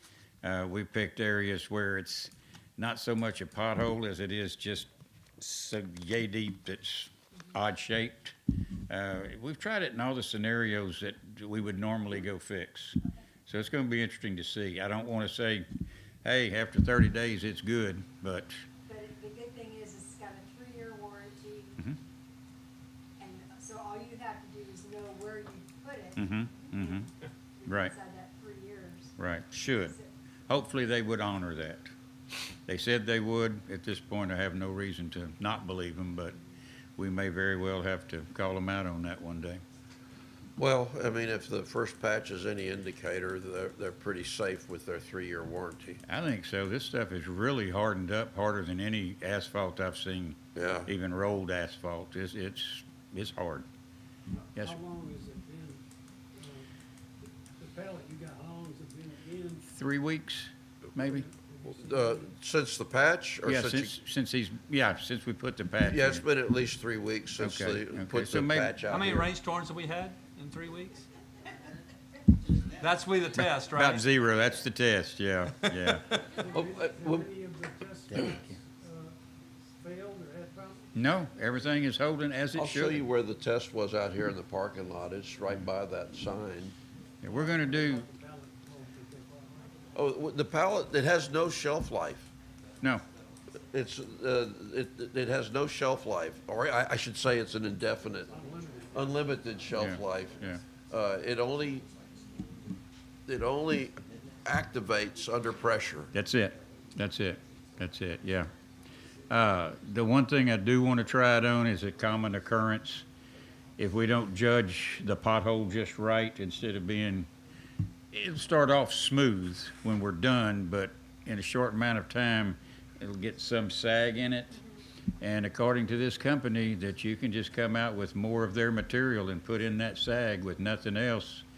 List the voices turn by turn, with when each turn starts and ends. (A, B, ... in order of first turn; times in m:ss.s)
0:00.4-0:08.4 A
0:08.9-0:15.7 A
0:16.2-0:18.6 A
0:18.8-0:21.8 B
0:23.2-0:27.1 B
0:26.2-0:27.1 A
0:27.6-0:29.2 B
0:27.7-0:27.9 A
0:29.2-0:30.0 A
0:30.5-0:31.9 A
0:32.7-0:36.4 A
0:37.0-0:39.6 A
0:40.6-0:46.0 C
0:46.0-0:53.7 A
0:50.5-0:50.9 C
0:54.6-0:55.8 D
0:56.4-0:56.7 D
0:57.6-0:59.6 D
0:59.6-1:01.2 A
1:01.0-1:02.2 D
1:01.8-1:03.9 C
1:03.4-1:06.2 A
1:05.9-1:09.3 C
1:07.4-1:08.7 A
1:08.9-1:11.1 E
1:12.8-1:14.0 E
1:13.7-1:16.2 A
1:16.3-1:19.2 D
1:16.4-1:17.2 C
1:18.1-1:18.6 A
1:19.8-1:20.9 D
1:20.9-1:23.0 A
1:22.5-1:26.7 C
1:27.2-1:28.0 A
1:27.3-1:29.7 D
1:29.9-1:32.3 C
1:33.6-1:38.3 C
1:38.3-1:39.0 D
1:38.9-1:41.8 C
1:39.7-1:40.6 A
1:43.3-1:46.1 C
1:46.1-1:48.5 A
1:49.3-1:53.0 A
1:53.8-1:57.3 A
1:58.1-2:04.6 A
2:05.2-2:11.4 A